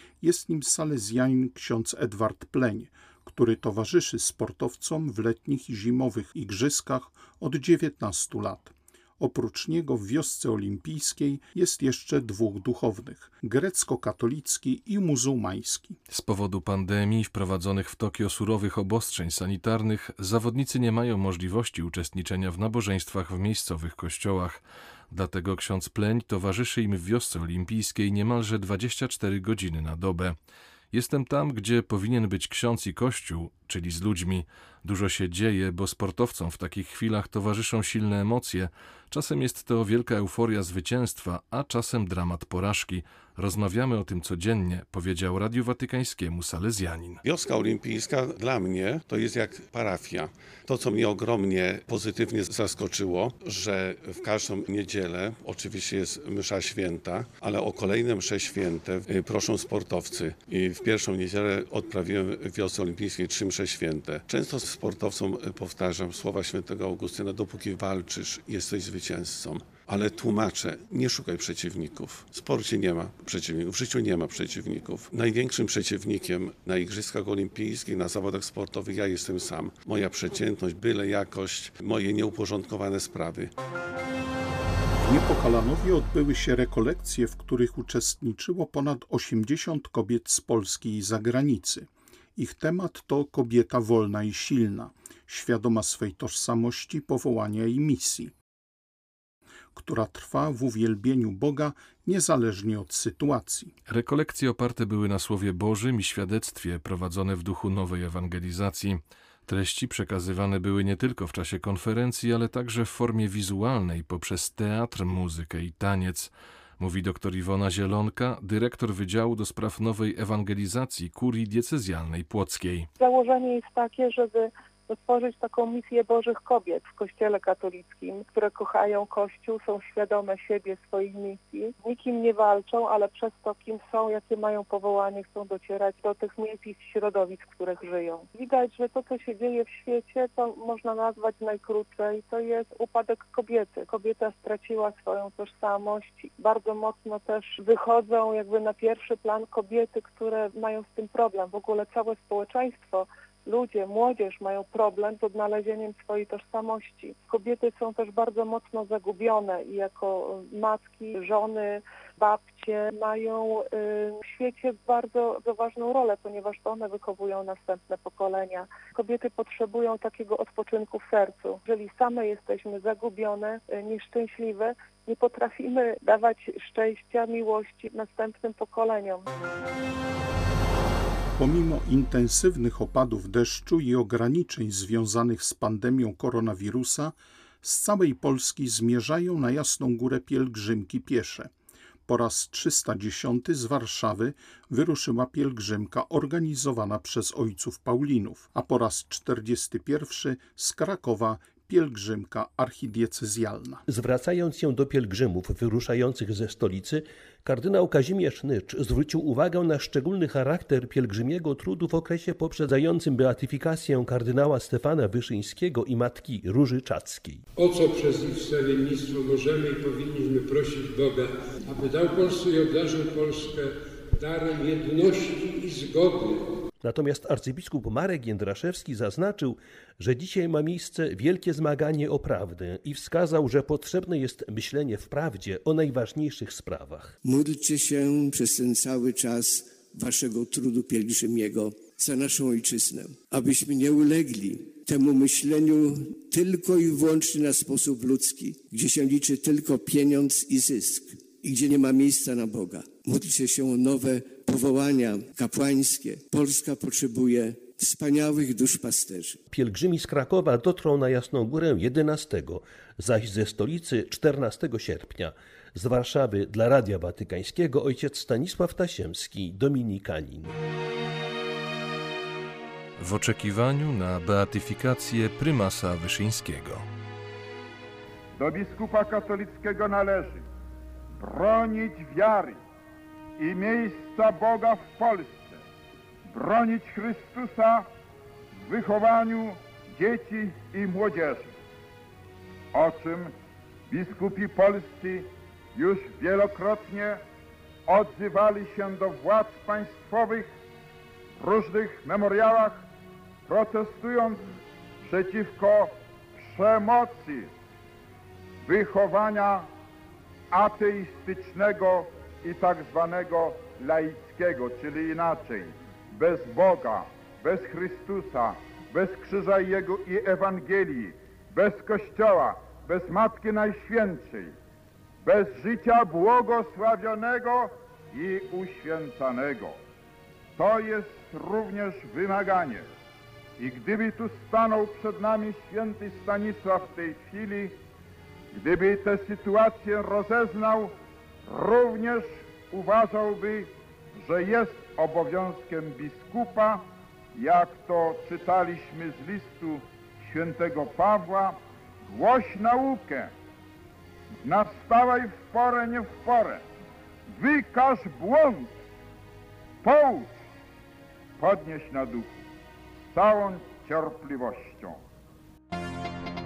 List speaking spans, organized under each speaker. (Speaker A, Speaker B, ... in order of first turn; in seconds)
Speaker A: 0.2-16.0, 84.9-98.3, 99.7-103.7, 181.4-191.5, 192.1-203.8
Speaker B: 16.1-30.4, 30.9-47.2, 103.9-122.9, 273.0-276.8
Speaker C: 47.2-83.5
Speaker D: 123.0-179.2
Speaker E: 203.9-217.4, 226.8-237.1, 259.5-270.5
Speaker F: 217.6-226.5
Speaker G: 237.2-259.4
Speaker H: 278.4-280.4, 281.2-282.6, 283.4-285.6, 286.3-287.9, 288.6-291.5, 292.7-293.3, 293.9-297.2, 297.9-300.5, 301.4-302.8, 303.5-304.4, 305.0-305.9, 306.4-307.5, 308.6-309.7, 310.5-324.5, 325.2-329.8, 330.6-332.9, 333.6-337.8, 338.5-340.9, 341.5-346.8, 347.3-353.3, 354.4-356.6, 357.3-358.8, 359.8-360.4, 361.4-362.3, 363.1-365.0